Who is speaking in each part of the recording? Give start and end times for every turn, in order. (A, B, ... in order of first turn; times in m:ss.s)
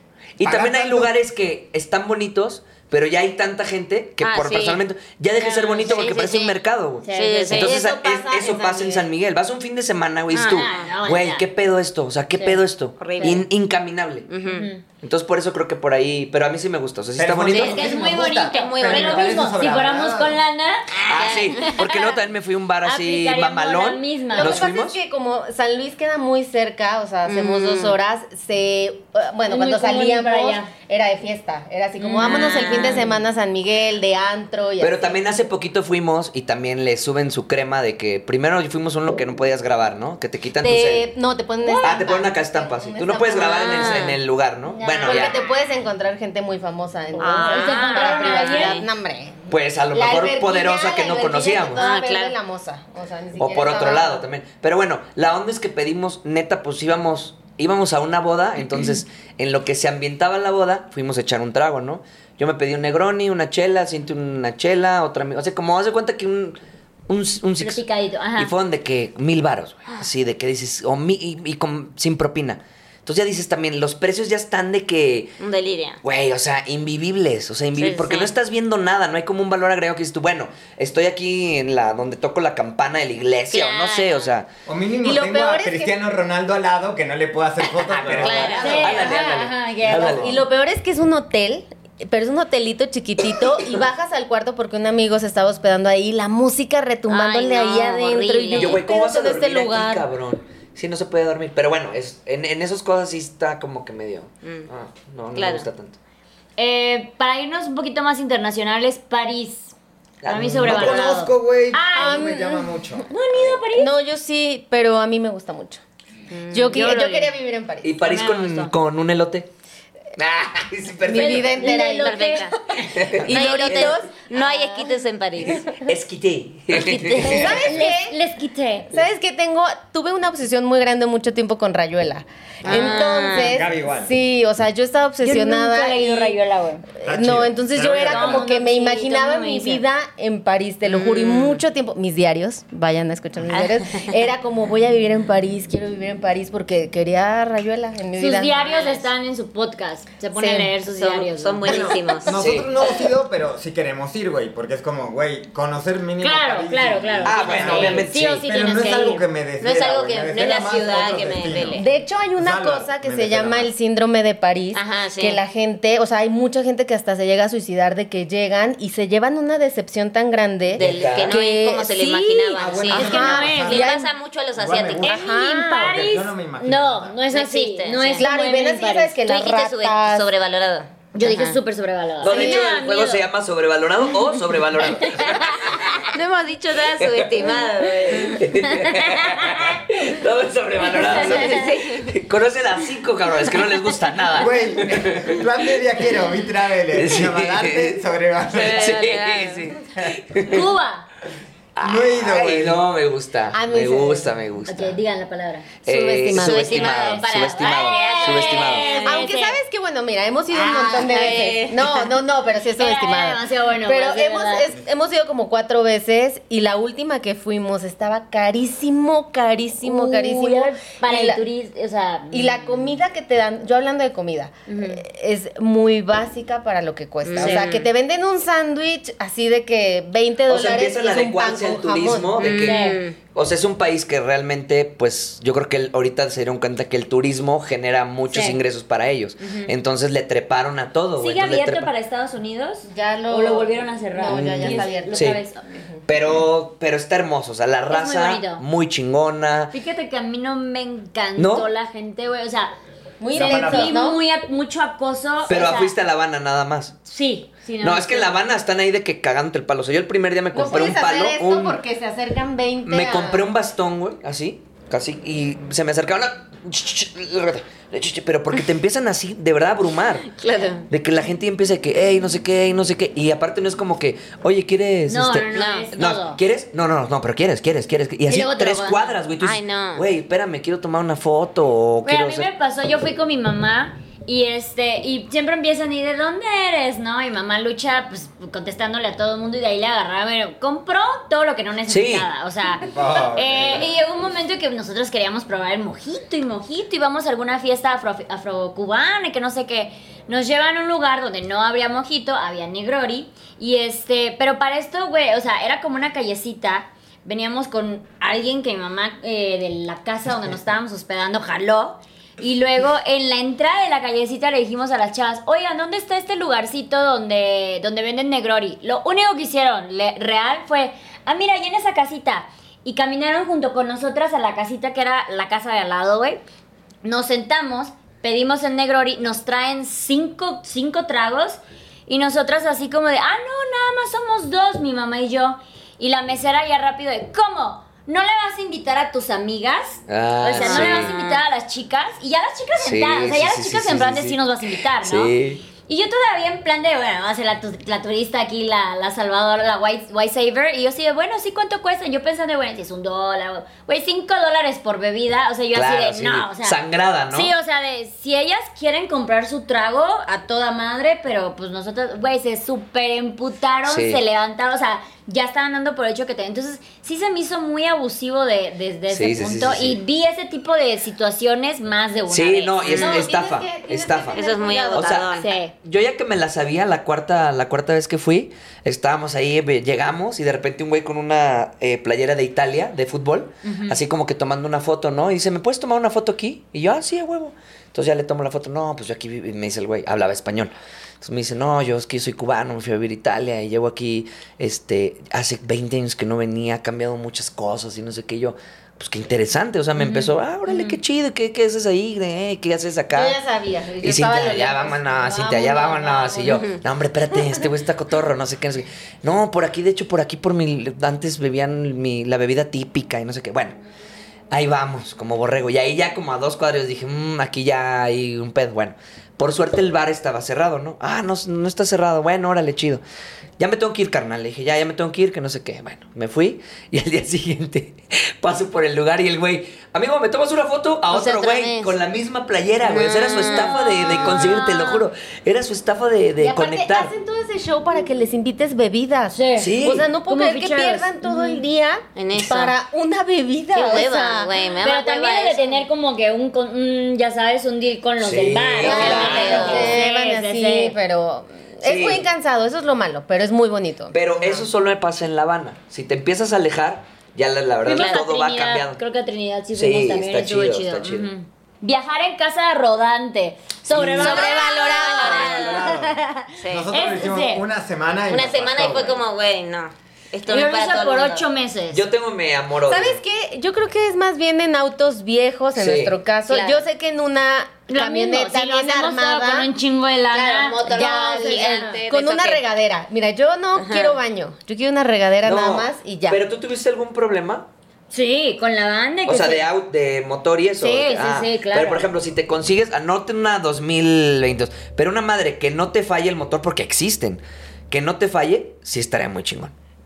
0:00.4-0:14.3 A
0:00.4-0:01.1 B
0:04.2-0:04.8 C
0:05.4-0:06.1 D
0:05.9-0:06.6 C
0:07.0-0:07.7 D
0:07.1-0:07.8 C
0:07.5-0:09.1 E
0:10.3-0:10.9 C
0:10.4-0:11.5 D
0:12.4-0:12.6 D
0:13.0-0:13.4 C
0:14.3-0:14.7 C
0:14.5-0:14.8 D
0:15.0-0:17.9 A
0:17.2-0:20.4 B
0:17.5-0:19.4 C
0:17.5-0:22.2 D
0:20.9-0:21.9 C
0:21.1-0:25.0 A
0:22.8-0:24.7 D
0:24.3-0:35.2 E
0:27.2-0:28.0 C
0:29.5-0:30.7 D
0:32.0-0:33.2 C
0:32.2-0:33.1 D
0:34.8-0:41.1 A
0:40.6-0:44.0 E
0:41.6-0:42.1 D
0:41.8-0:45.4 A
0:43.3-0:44.2 C
0:44.7-0:45.5 D
0:45.0-0:54.2 E
0:47.2-0:48.9 C
0:47.2-0:48.8 D
0:49.5-0:51.9 A
0:51.8-0:52.4 C
0:53.4-1:07.8 A
1:07.6-1:08.5 D
1:08.4-1:15.4 A
1:15.4-1:16.0 C
1:16.0-1:24.5 A
1:17.8-1:18.3 C
1:23.5-1:24.3 C
1:24.7-1:29.1 B
1:25.0-1:26.0 E
1:27.9-1:30.4 A
1:28.0-1:28.7 C
1:28.6-1:30.2 D
1:30.0-1:40.0 E
1:37.1-1:38.8 C
1:38.5-1:46.0 A
1:44.4-1:44.7 C
1:45.4-1:45.7 C
1:46.6-1:49.7 D
1:50.2-1:51.1 A
1:50.2-1:52.4 D
1:50.6-1:53.1 B
1:52.0-1:52.8 E
1:53.1-1:53.9 D
1:53.7-1:55.8 E
1:56.3-1:56.9 C
1:56.5-1:58.0 E
1:56.7-1:57.3 D
1:57.8-1:59.5 A
1:58.0-1:58.7 D
2:00.2-2:01.7 A
2:01.0-2:04.8 E
2:01.1-2:02.9 D
2:01.6-2:02.6 C
2:02.9-2:04.0 A
2:03.3-2:05.7 C
2:05.5-2:07.6 A
2:06.7-2:07.6 C
2:07.2-2:08.2 E
2:07.4-2:08.9 D
2:08.9-2:16.4 E
2:12.6-2:13.6 C
2:12.8-2:14.1 B
2:15.2-2:16.9 D
2:17.0-2:28.6 E
2:17.0-2:18.5 B
2:18.0-2:19.8 D
2:20.8-2:21.6 C
2:23.5-2:24.2 C
2:28.2-2:32.2 D
2:28.7-2:29.0 C
2:30.4-2:30.7 E
2:30.9-2:32.4 C
2:31.6-2:43.7 B
2:32.3-2:32.7 A
2:36.2-2:39.3 D
2:37.2-2:38.4 A
2:39.6-2:41.8 C
2:41.8-2:54.1 E
2:44.7-2:45.4 C
2:50.8-2:55.2 C
2:50.8-2:51.4 A
2:52.6-2:53.9 B
2:52.9-2:53.9 D
2:54.6-2:57.2 B
2:55.0-2:56.0 E
2:55.0-2:59.2 D
2:57.3-2:58.3 C
2:58.2-3:00.3 E
2:59.3-3:01.6 C
3:01.1-3:03.3 D
3:02.2-3:06.1 A
3:02.3-3:02.7 E
3:05.2-3:09.4 C
3:07.0-3:15.4 A
3:10.9-3:12.1 C
3:11.0-3:11.6 D
3:14.3-3:19.1 B
3:16.9-3:20.7 A
3:18.6-3:19.7 C
3:20.5-3:21.1 D
3:21.8-3:25.0 A
3:21.8-3:22.8 B
3:23.5-3:24.4 E
3:24.6-3:25.7 D
3:25.8-3:29.0 A
3:25.9-3:27.0 E
3:26.3-3:29.3 C
3:26.6-3:29.6 D
3:29.0-3:41.4 E
3:30.5-3:32.1 C
3:32.8-3:34.7 D
3:39.8-3:42.8 D
3:42.3-3:52.4 E
3:44.7-3:45.0 D
3:47.2-3:47.9 C
3:47.4-3:47.7 D
3:50.5-3:52.8 A
3:52.4-3:53.2 C
3:52.6-3:53.0 D
3:53.3-4:01.9 A
3:58.3-3:58.6 D
4:01.2-4:05.6 D
4:02.9-4:06.0 E
4:04.3-4:05.4 A
4:06.1-4:09.7 A
4:07.9-4:08.6 D
4:09.7-4:12.7 D
4:11.4-4:11.7 A
4:13.2-4:14.2 E
4:13.4-4:14.0 B
4:13.4-4:16.0 D
4:15.4-4:17.0 A
4:17.0-4:18.4 D
4:17.8-4:21.8 A
4:20.5-4:23.4 E
4:22.8-4:30.3 A
4:30.3-4:30.9 C
4:30.9-4:42.5 A
4:35.1-4:36.4 D
4:35.5-4:35.9 C
4:38.3-4:39.2 D
4:39.4-4:40.1 C
4:42.0-5:26.4 D
4:51.9-4:52.3 A
4:52.8-4:53.9 B
5:27.0-5:56.8 D
5:40.1-5:41.1 A
5:40.5-5:41.4 C
5:42.8-5:44.4 A
5:45.0-5:45.6 A
5:55.7-5:57.5 A
5:57.3-6:13.3 D
6:03.9-6:04.2 A
6:09.1-6:10.0 A
6:12.3-6:15.3 A
6:12.9-6:15.3 E
6:14.3-6:15.5 C
6:15.4-6:15.7 D
6:15.8-6:43.4 A
6:23.6-6:24.0 D
6:40.0-6:41.0 D
6:43.1-6:46.6 E
6:44.0-6:53.8 A
6:46.5-6:46.8 C
6:54.5-7:03.0 A
7:03.6-7:17.1 A
7:11.1-7:12.0 C
7:12.9-7:13.8 C
7:13.5-7:15.1 D
7:16.4-7:24.5 E
7:19.3-7:21.6 D
7:19.6-7:20.1 A
7:22.2-7:22.8 C
7:23.7-7:25.8 C
7:24.8-7:31.0 D
7:28.2-7:30.0 A
7:28.8-7:30.0 C
7:28.8-7:34.7 E
7:31.8-7:32.2 A
7:34.1-7:39.0 A
7:37.8-7:47.6 D
7:37.9-7:38.2 C
7:39.7-7:41.3 A
7:44.0-7:49.2 B
7:44.2-7:45.8 E
7:44.2-7:46.0 C
7:46.6-7:46.9 C
7:48.3-7:51.4 C
7:50.5-7:52.0 D
7:51.9-7:53.2 A
7:52.9-7:59.7 E
7:55.8-7:56.2 A
7:56.5-7:56.8 C
7:57.9-8:02.0 D
8:00.3-8:02.6 C
8:00.9-8:06.4 E
8:03.8-8:04.2 C
8:05.4-8:07.7 A
8:08.1-8:09.6 D
8:09.3-8:19.7 A
8:10.8-8:12.1 D